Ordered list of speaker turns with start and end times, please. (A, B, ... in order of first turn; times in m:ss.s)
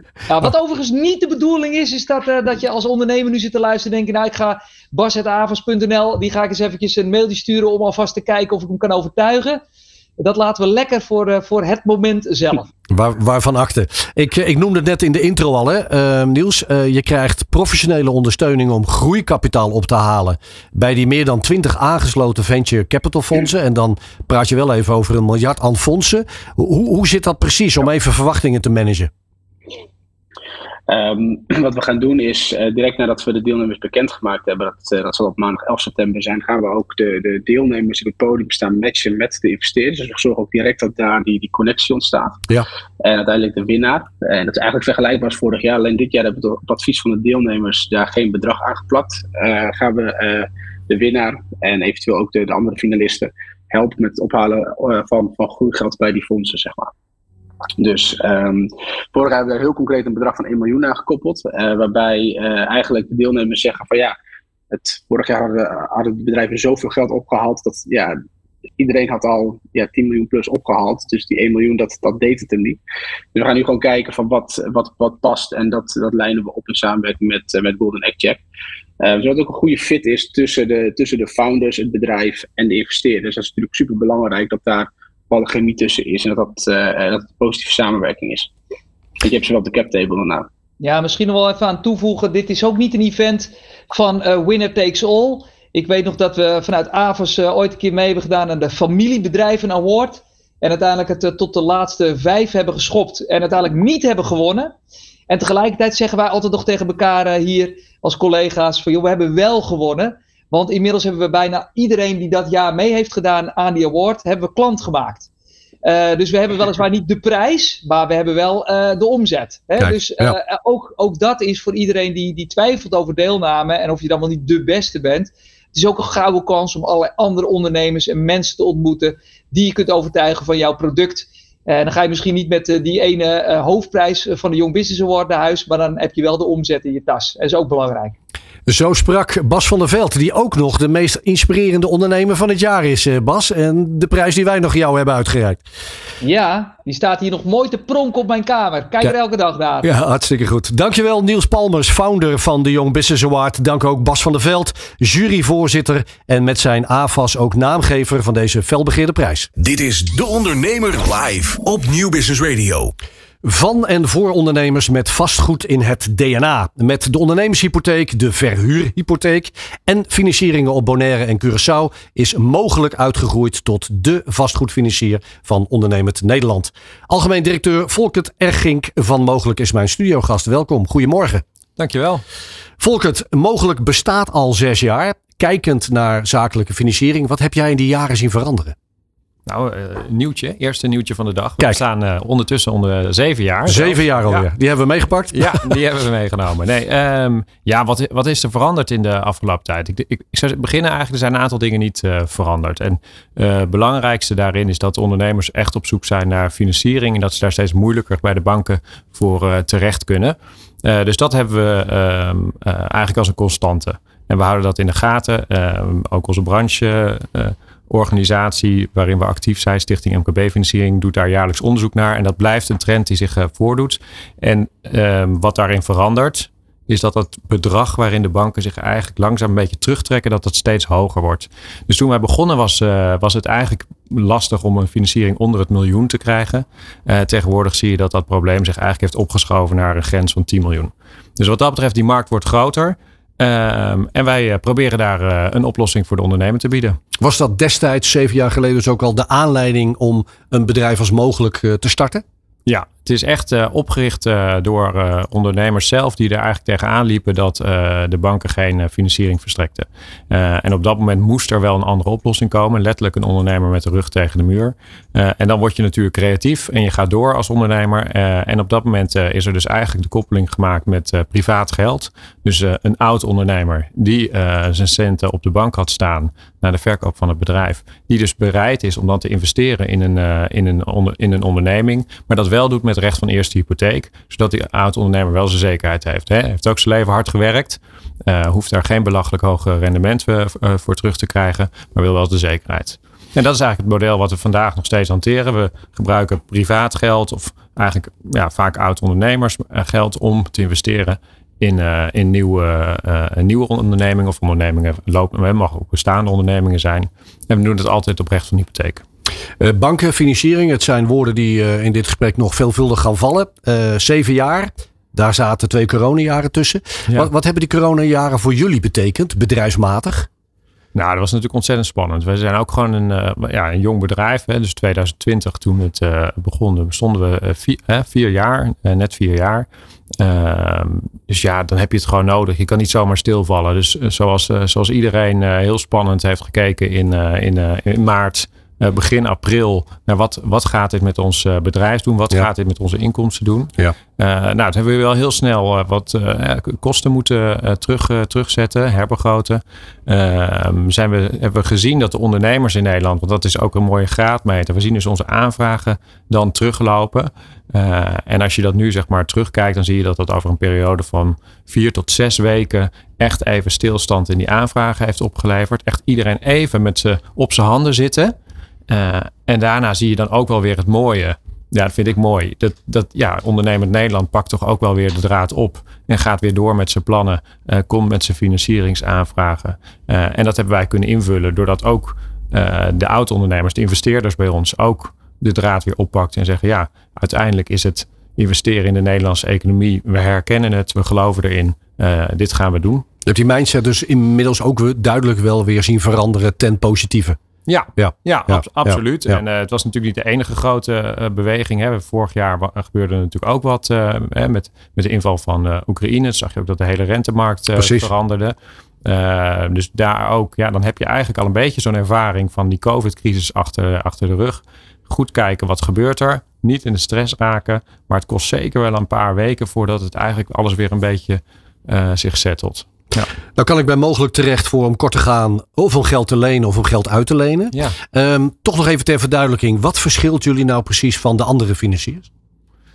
0:00.3-0:09.6 A
0:10.2-0:12.7 A
0:12.9-0:29.1 B
0:30.9-0:42.4 C
0:43.0-0:56.9 C
0:57.8-1:04.2 C
1:04.7-1:08.2 C
1:08.8-1:12.8 C
1:13.3-1:18.4 C
1:19.0-1:28.5 C
1:29.2-1:30.5 C
1:30.8-1:44.8 A
1:45.3-1:55.3 A
1:55.8-2:18.2 A
1:59.8-2:00.4 B
2:18.7-2:25.6 B
2:26.2-2:29.9 A
2:29.8-2:39.5 B
2:39.6-2:42.9 D
2:43.4-3:01.4 B
3:01.8-3:02.2 E
3:02.8-3:08.8 B
3:09.5-3:14.5 E
3:13.7-3:15.6 B
3:15.3-4:07.0 E
4:07.2-4:12.2 B
4:12.7-5:09.0 E
5:09.6-5:20.3 B
5:21.0-5:29.7 E
5:30.2-6:08.4 E
6:08.9-6:33.1 E
6:33.3-6:37.4 B
6:37.7-7:03.3 E
6:38.0-6:39.4 B
6:47.8-6:48.1 B
7:03.6-7:12.3 B